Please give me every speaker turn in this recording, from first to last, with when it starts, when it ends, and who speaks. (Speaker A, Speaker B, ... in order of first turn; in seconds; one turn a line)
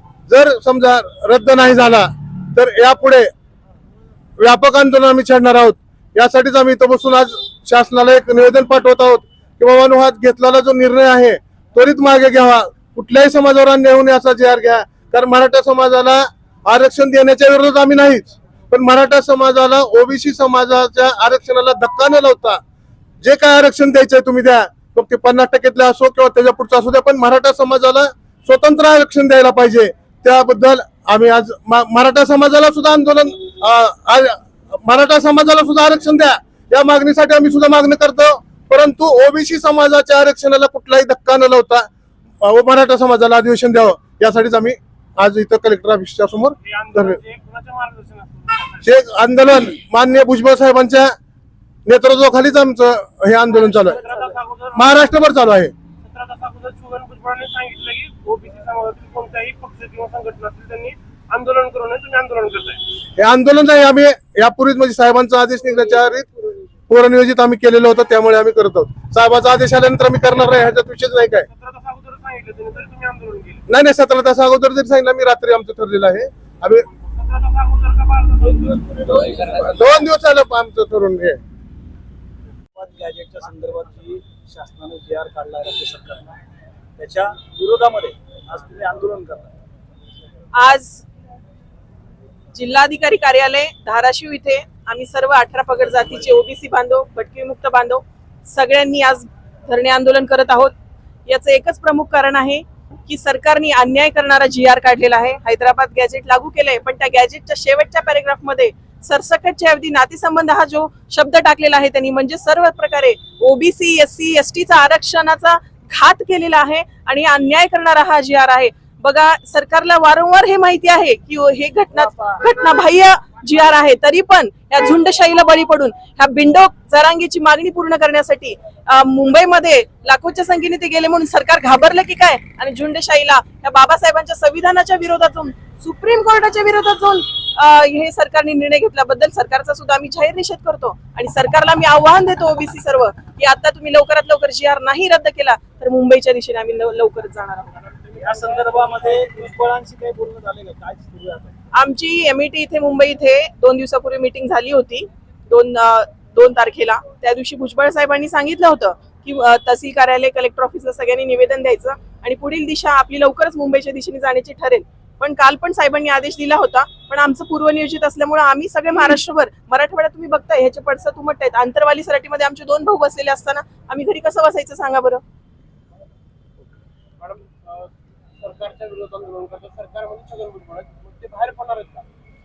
Speaker A: 0.3-3.3
Speaker A: 4.4-22.6
Speaker A: 23.2-41.9
Speaker A: 42.4-47.2
Speaker B: 46.6-48.8
Speaker A: 48.8-51.1
Speaker A: 51.9-54.0
Speaker B: 53.6-55.2
Speaker A: 54.8-55.7
Speaker B: 56.1-62.8
Speaker A: 63.2-66.3
Speaker A: 66.9-71.5
Speaker B: 71.5-73.6
Speaker A: 73.7-76.8
Speaker B: 77.2-79.4
Speaker A: 79.2-81.4
Speaker C: 82.8-86.2
Speaker C: 87.0-89.5
Speaker D: 90.5-91.0
Speaker D: 92.5-100.7
Speaker D: 101.3-147.8
Speaker C: 148.1-151.5
Speaker D: 151.7-175.2
Speaker B: 177.2-177.9
Speaker B: 178.4-182.1